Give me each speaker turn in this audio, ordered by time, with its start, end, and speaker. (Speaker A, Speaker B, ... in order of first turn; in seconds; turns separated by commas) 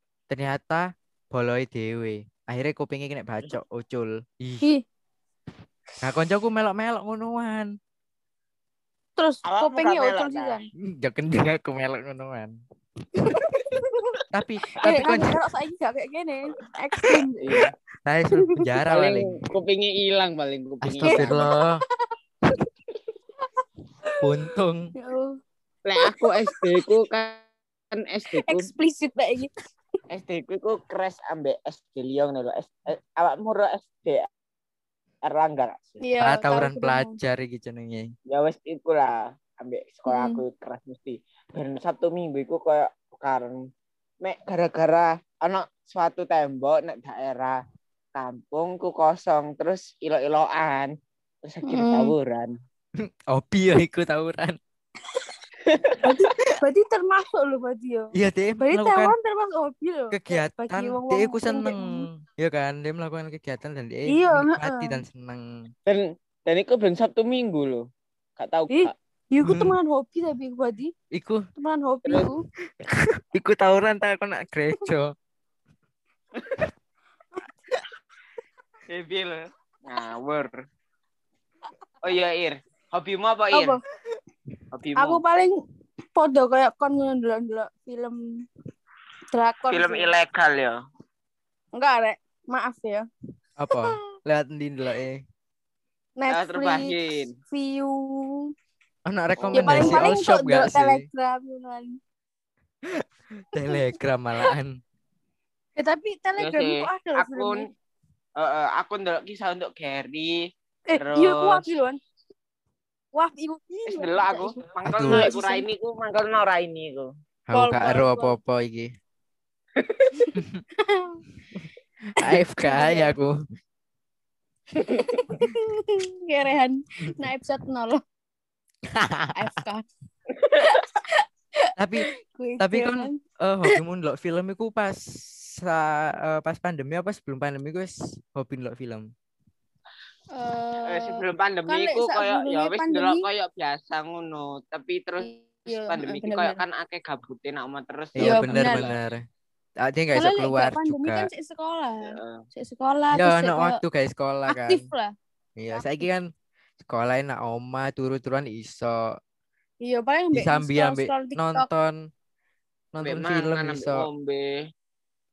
Speaker A: 0.3-4.6, Speaker A: 6.0-7.7, Speaker B: 9.2-10.7, Speaker C: 9.4-10.6, Speaker A: 10.8-12.5, Speaker B: 13.2-14.2, Speaker A: 14.3-15.4, Speaker B: 14.8-17.6, Speaker C: 17.4-17.7, Speaker A: 18.1-19.4, Speaker C: 18.9-21.4, Speaker A: 20.8-21.8, Speaker B: 21.1-21.5, Speaker A: 24.2-24.9, Speaker B: 25.0-25.4, Speaker C: 25.9-28.7, Speaker B: 26.1-26.9, Speaker B: 28.4-29.5, Speaker C: 30.1-34.3, Speaker C: 35.2-36.0, Speaker B: 36.0-37.1, Speaker A: 36.2-38.1, Speaker C: 38.3-43.6, Speaker B: 40.1-40.4, Speaker C: 44.2-47.6, Speaker C: 48.1-50.9, Speaker C: 51.4-52.5, Speaker B: 51.7-52.1, Speaker A: 53.0-54.6, Speaker C: 55.6-56.0, Speaker B: 56.0-62.1, Speaker A: 58.1-59.1, Speaker A: 60.1-65.5, Speaker B: 64.1-65.0, Speaker C: 65.9-67.8, Speaker C: 68.4-68.9, Speaker B: 68.7-70.9, Speaker A: 69.4-69.8, Speaker A: 71.1-71.5, Speaker B: 71.6-72.4, Speaker A: 72.8-75.1, Speaker C: 76.4-76.7, Speaker C: 78.9-80.6, Speaker C: 82.0-83.8, Speaker B: 83.5-83.8, Speaker C: 84.7-85.2, Speaker B: 85.0-85.6, Speaker B: 86.1-88.2, Speaker B: 89.3-90.1, Speaker C: 89.7-90.8, Speaker B: 91.8-93.1, Speaker A: 93.6-95.2, Speaker B: 96.2-98.5, Speaker C: 96.3-97.3, Speaker A: 99.1-101.0, Speaker C: 99.4-100.1, Speaker B: 99.5-102.0, Speaker A: 102.9-104.8, Speaker B: 105.8-107.7, Speaker C: 106.4-107.6, Speaker C: 108.4-110.4, Speaker B: 110.9-112.0, Speaker C: 111.0-111.7, Speaker B: 113.1-115.6, Speaker C: 113.9-117.1, Speaker A: 114.9-115.3, Speaker A: 117.5-118.9, Speaker B: 117.5-118.4, Speaker C: 119.8-120.2, Speaker B: 120.3-121.2, Speaker A: 120.4-120.6, Speaker A: 122.2-123.3, Speaker B: 122.2-123.2, Speaker B: 124.9-128.0, Speaker A: 128.9-129.5, Speaker B: 129.3-129.8, Speaker B: 130.6-133.2, Speaker A: 131.8-132.1, Speaker A: 132.6-139.1, Speaker B: 140.3-143.2, Speaker C: 140.9-149.0, Speaker B: 145.2-146.6, Speaker A: 148.2-149.2, Speaker B: 148.2-148.9, Speaker A: 149.8-151.3, Speaker B: 150.2-153.8, Speaker C: 152.0-152.4, Speaker A: 153.1-154.8, Speaker B: 154.5-155.1, Speaker A: 155.6-156.3, Speaker B: 155.7-156.0, Speaker A: 156.8-159.0, Speaker B: 159.8-161.7, Speaker A: 160.3-162.0, Speaker A: 162.9-164.1, Speaker C: 163.0-164.5